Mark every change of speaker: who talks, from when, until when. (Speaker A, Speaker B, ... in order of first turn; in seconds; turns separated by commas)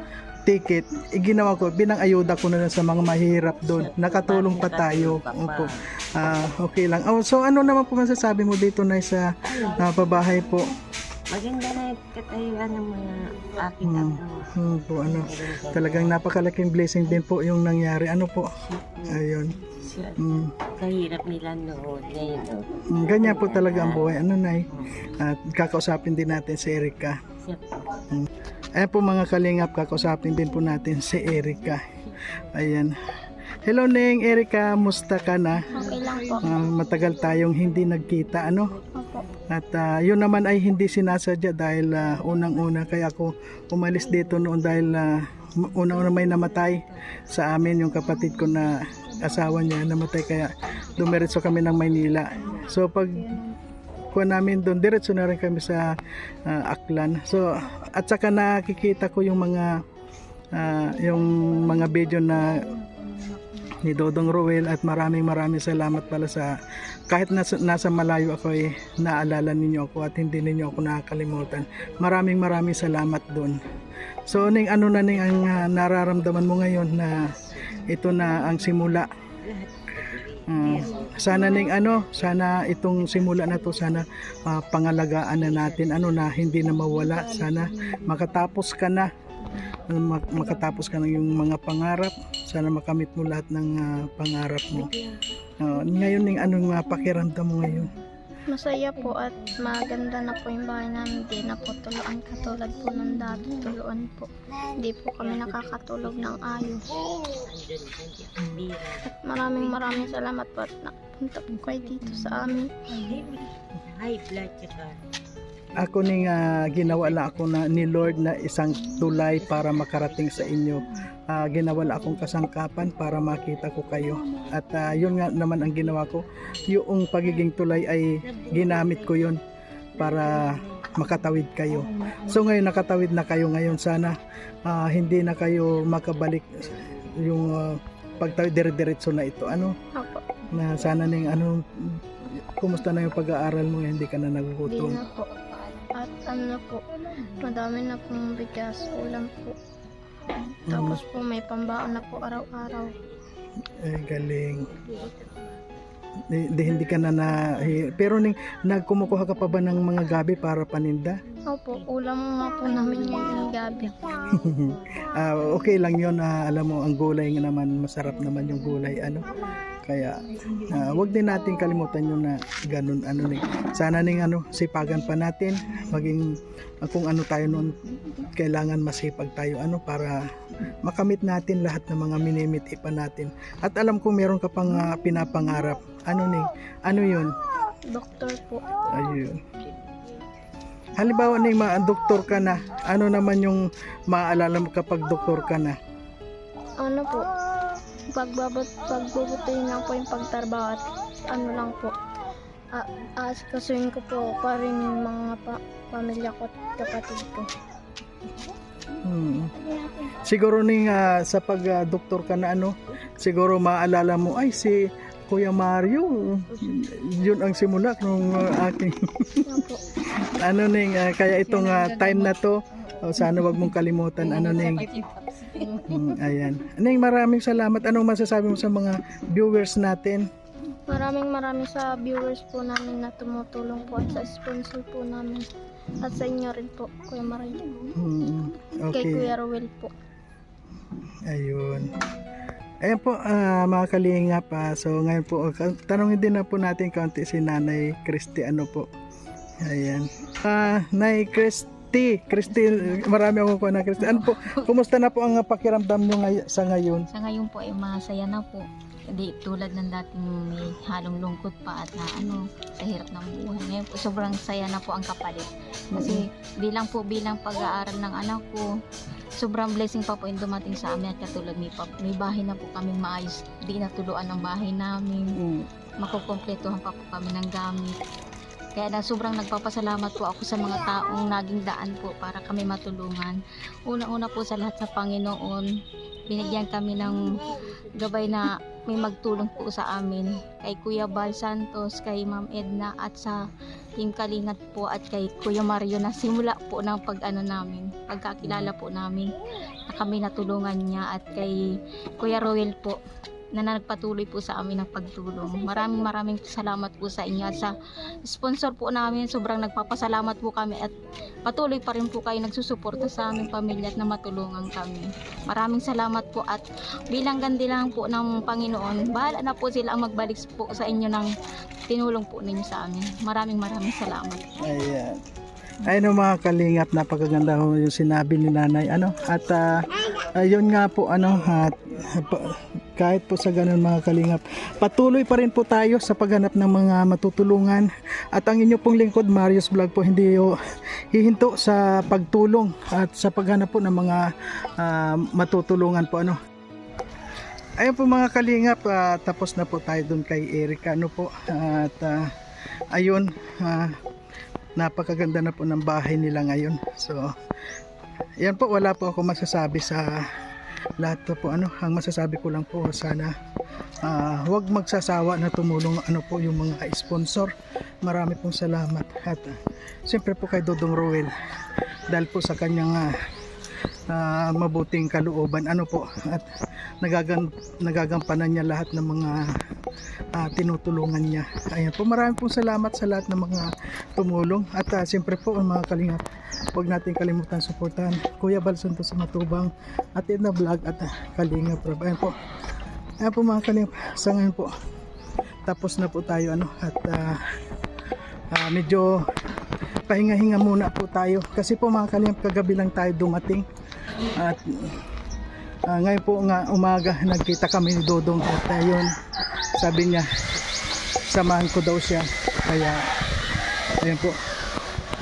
Speaker A: 0.5-10.7, Speaker B: 3.7-5.7, Speaker B: 9.5-9.8, Speaker B: 11.3-14.5, Speaker A: 13.8-18.5, Speaker B: 15.1-16.2, Speaker B: 18.8-19.2, Speaker A: 19.1-19.6, Speaker B: 19.7-24.1, Speaker A: 20.2-20.5, Speaker A: 22.9-27.2, Speaker B: 27.5-28.0, Speaker A: 28.0-31.8, Speaker A: 32.5-33.0, Speaker A: 33.6-35.7, Speaker C: 35.7-36.5, Speaker A: 36.4-38.8, Speaker C: 39.0-39.2, Speaker A: 39.5-53.3, Speaker A: 54.1-59.8, Speaker A: 60.5-62.7, Speaker A: 63.7-66.6, Speaker A: 67.1-73.6, Speaker A: 74.3-77.3, Speaker B: 75.4-75.7, Speaker A: 77.8-79.1, Speaker B: 79.5-84.0, Speaker A: 80.5-89.1, Speaker B: 85.3-86.5, Speaker A: 89.8-94.9, Speaker B: 94.8-95.1, Speaker A: 95.6-97.9, Speaker C: 98.5-106.8, Speaker B: 105.2-106.7, Speaker B: 107.3-109.6, Speaker C: 109.2-112.7, Speaker B: 113.0-115.0, Speaker A: 115.8-129.4, Speaker B: 116.3-118.2, Speaker B: 119.3-120.6, Speaker B: 125.8-126.7, Speaker B: 128.2-129.3, Speaker B: 130.0-131.1, Speaker A: 130.0-139.8, Speaker C: 139.9-140.3, Speaker A: 140.5-145.0, Speaker C: 144.7-145.3, Speaker D: 145.5-145.9, Speaker C: 146.0-146.8, Speaker C: 147.4-149.6, Speaker C: 150.7-152.9, Speaker A: 150.7-151.0, Speaker B: 151.6-153.2, Speaker A: 153.8-154.7, Speaker B: 154.6-155.6, Speaker A: 156.3-161.2, Speaker B: 157.5-157.7, Speaker B: 161.3-161.7, Speaker C: 161.5-164.1, Speaker B: 162.9-165.1, Speaker A: 164.4-169.3, Speaker A: 169.8-180.2, Speaker A: 180.8-187.3, Speaker C: 187.9-188.8, Speaker A: 188.9-189.4, Speaker A: 191.0-195.8, Speaker C: 196.8-197.3, Speaker C: 198.1-201.9, Speaker C: 202.7-207.5, Speaker A: 209.0-209.5, Speaker A: 210.1-219.6, Speaker C: 219.5-219.8, Speaker A: 220.1-224.9, Speaker D: 221.5-222.3, Speaker D: 224.6-225.8, Speaker A: 225.8-230.3, Speaker C: 230.9-235.5, Speaker C: 236.0-237.9, Speaker A: 237.9-239.3, Speaker C: 238.9-239.9, Speaker A: 241.2-242.0, Speaker A: 242.8-248.9, Speaker A: 249.6-257.1, Speaker D: 254.0-254.7, Speaker D: 257.1-268.6, Speaker A: 265.9-266.2, Speaker D: 269.4-275.3, Speaker A: 275.4-275.7, Speaker D: 276.0-278.0, Speaker D: 278.8-285.7, Speaker D: 286.3-287.2, Speaker D: 288.0-293.4, Speaker D: 294.0-299.3, Speaker A: 298.4-298.7, Speaker D: 299.9-301.6, Speaker D: 302.2-303.0, Speaker D: 303.6-307.7, Speaker D: 308.2-310.9, Speaker D: 311.5-321.3, Speaker D: 321.9-324.5, Speaker A: 324.6-325.2, Speaker A: 325.8-340.6, Speaker A: 341.1-346.4, Speaker A: 347.8-352.3, Speaker A: 352.9-354.0, Speaker A: 354.8-357.3, Speaker A: 358.4-360.3, Speaker A: 361.0-363.3, Speaker A: 364.0-371.3, Speaker A: 372.1-373.1, Speaker A: 374.1-376.5, Speaker A: 377.0-379.6, Speaker A: 380.4-392.4, Speaker A: 393.2-394.7, Speaker A: 395.7-397.4, Speaker A: 398.5-399.2, Speaker A: 400.1-403.7, Speaker A: 404.4-405.0, Speaker A: 405.9-409.1, Speaker A: 409.8-410.3, Speaker A: 411.3-413.0, Speaker A: 414.0-414.4